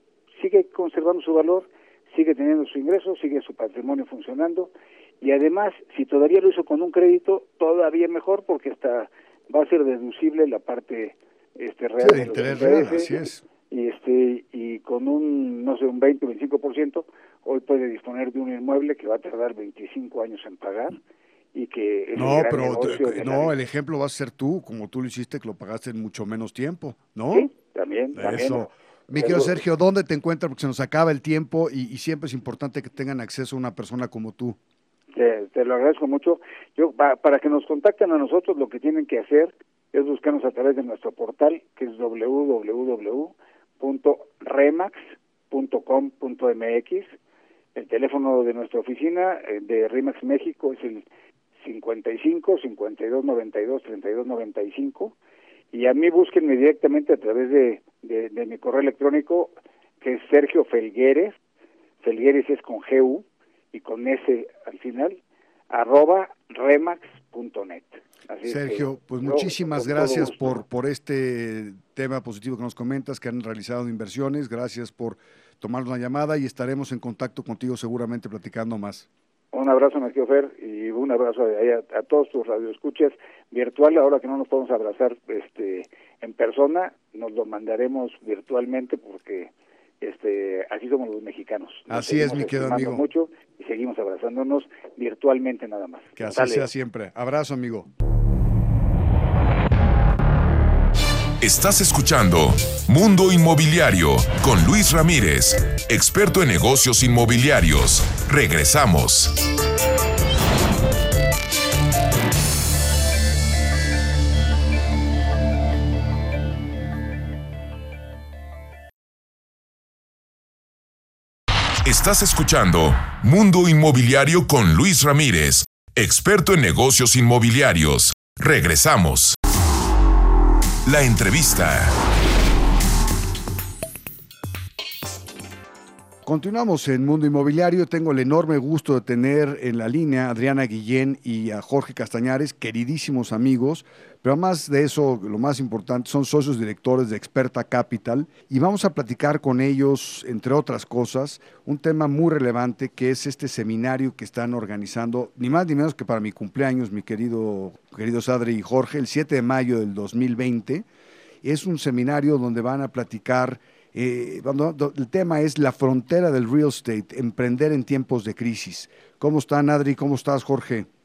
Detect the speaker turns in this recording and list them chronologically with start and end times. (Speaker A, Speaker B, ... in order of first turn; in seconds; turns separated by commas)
Speaker A: 0.3-21.0, Speaker B: 12.0-13.4, Speaker A: 21.5-23.5, Speaker B: 22.1-27.5, Speaker A: 27.3-29.6, Speaker B: 28.1-34.6, Speaker A: 35.1-45.0, Speaker A: 45.5-47.1, Speaker A: 47.7-51.0, Speaker A: 51.6-55.1, Speaker A: 55.7-61.4, Speaker A: 62.0-65.2, Speaker A: 65.7-70.6, Speaker B: 68.4-79.1, Speaker A: 79.5-96.7, Speaker B: 91.9-93.0, Speaker B: 96.2-97.9, Speaker C: 101.4-109.4, Speaker C: 121.8-129.3, Speaker C: 130.8-131.9, Speaker B: 136.2-160.8, Speaker B: 161.4-170.9